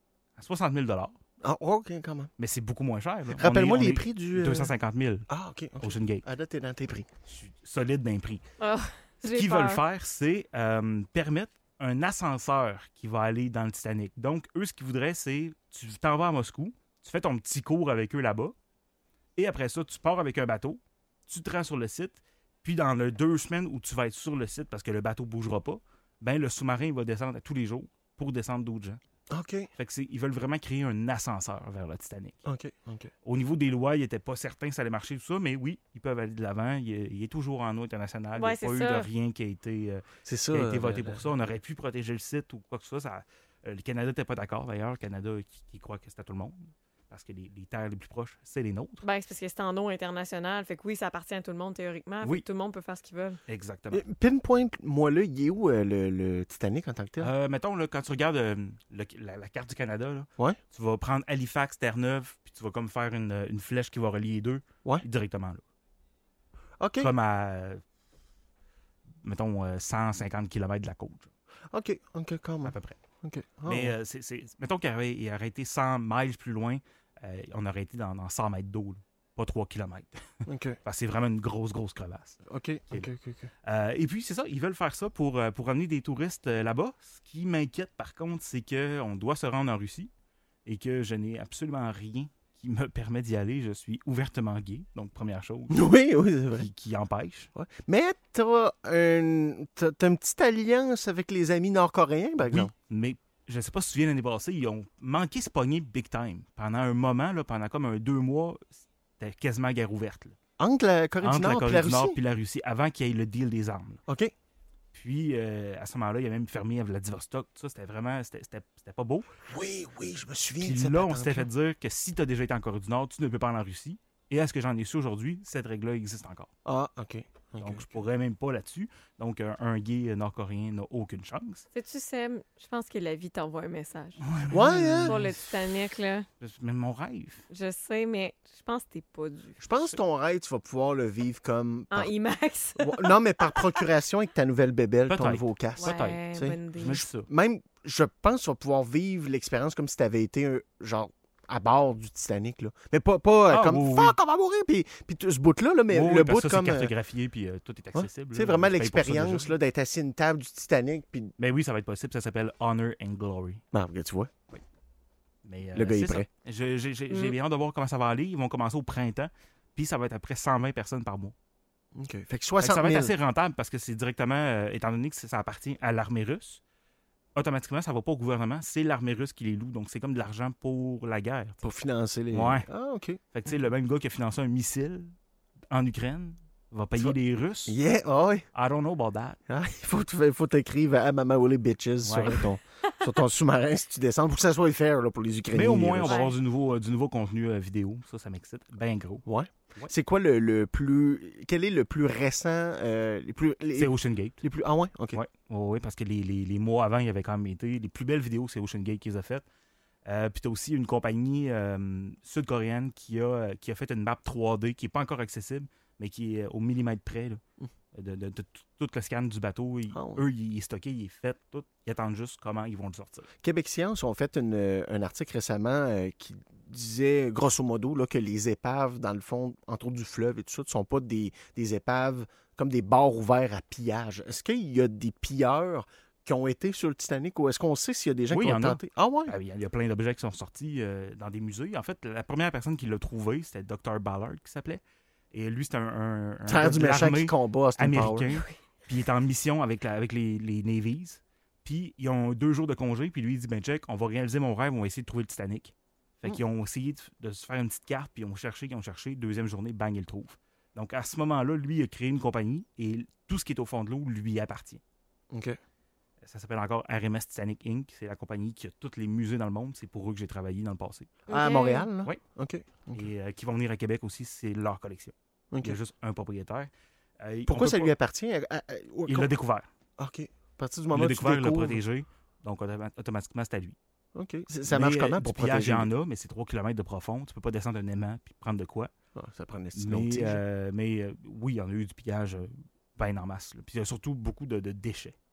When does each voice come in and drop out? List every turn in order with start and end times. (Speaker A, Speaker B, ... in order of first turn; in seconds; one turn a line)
Speaker A: 0.4-1.1
Speaker B: 1.4-2.3
Speaker A: 2.4-5.3
Speaker B: 3.4-4.7
Speaker B: 5.3-7.1
Speaker A: 5.8-6.2
Speaker A: 7.3-8.4
Speaker C: 8.6-9.8
Speaker A: 9.2-18.5
Speaker A: 19.4-29.0
Speaker B: 29.3-29.7
Speaker A: 29.8-32.4
Speaker B: 32.4-33.1
Speaker A: 33.2-49.0
Speaker C: 38.4-39.1
Speaker B: 40.2-41.2
Speaker C: 49.0-53.4
Speaker A: 53.5-54.0
Speaker B: 53.9-57.3
Speaker A: 57.2-65.6
Speaker B: 66.8-67.1
Speaker A: 67.0-67.8
Speaker A: 69.2-71.3
Speaker B: 71.7-73.9
Speaker A: 72.6-73.0
Speaker A: 73.7-82.4
Speaker B: 80.5-80.8
Speaker B: 82.5-83.5
Speaker A: 83.6-90.1
Speaker A: 90.7-95.9
Speaker B: 95.7-96.7
Speaker A: 96.6-97.5
Speaker B: 97.5-102.7
Speaker A: 102.4-110.3
Speaker B: 110.6-112.2
Speaker A: 111.2-114.0
Speaker B: 114.1-114.3
Speaker A: 114.9-119.3
Speaker B: 119.5-121.5
Speaker A: 120.6-126.5
Speaker B: 126.6-128.0
Speaker A: 127.6-131.7
Speaker C: 131.7-134.2
Speaker A: 134.2-135.4
Speaker B: 134.5-135.2
Speaker C: 135.1-136.3
Speaker A: 136.4-137.4
Speaker C: 137.5-139.6
Speaker B: 139.6-142.1
Speaker C: 141.9-143.8
Speaker B: 142.8-156.9
Speaker A: 145.1-146.2
Speaker C: 145.8-147.0
Speaker A: 146.7-147.3
Speaker A: 153.5-154.1
Speaker A: 155.9-159.5
Speaker B: 157.9-161.3
Speaker A: 161.4-163.6
Speaker B: 163.7-164.3
Speaker A: 165.4-171.3
Speaker B: 165.7-166.2
Speaker B: 171.9-173.1
Speaker A: 172.6-176.6
Speaker A: 177.3-181.6
Speaker B: 181.6-183.2
Speaker A: 182.3-182.7
Speaker A: 183.3-185.1
Speaker A: 185.7-187.8
Speaker B: 187.0-188.4
Speaker A: 188.5-189.4
Speaker B: 189.5-196.2
Speaker A: 192.0-192.5
Speaker A: 195.5-199.2
Speaker C: 196.1-196.3
Speaker B: 199.2-205.2
Speaker A: 203.7-204.4
Speaker A: 205.1-209.4
Speaker A: 210.0-217.4
Speaker A: 217.9-223.3
Speaker B: 219.9-220.2
Speaker B: 223.4-239.3
Speaker A: 238.3-244.8
Speaker A: 245.3-264.8
Speaker B: 246.4-248.4
Speaker B: 265.3-265.6
Speaker A: 266.2-271.2
Speaker C: 271.3-271.9
Speaker B: 271.3-273.0
Speaker A: 272.9-277.9
Speaker B: 275.5-275.8
Speaker B: 277.5-279.3
Speaker A: 279.1-279.7
Speaker B: 280.0-281.8
Speaker A: 280.9-283.8
Speaker B: 284.1-285.9
Speaker A: 284.7-288.9
Speaker B: 289.1-290.4
Speaker A: 289.7-295.1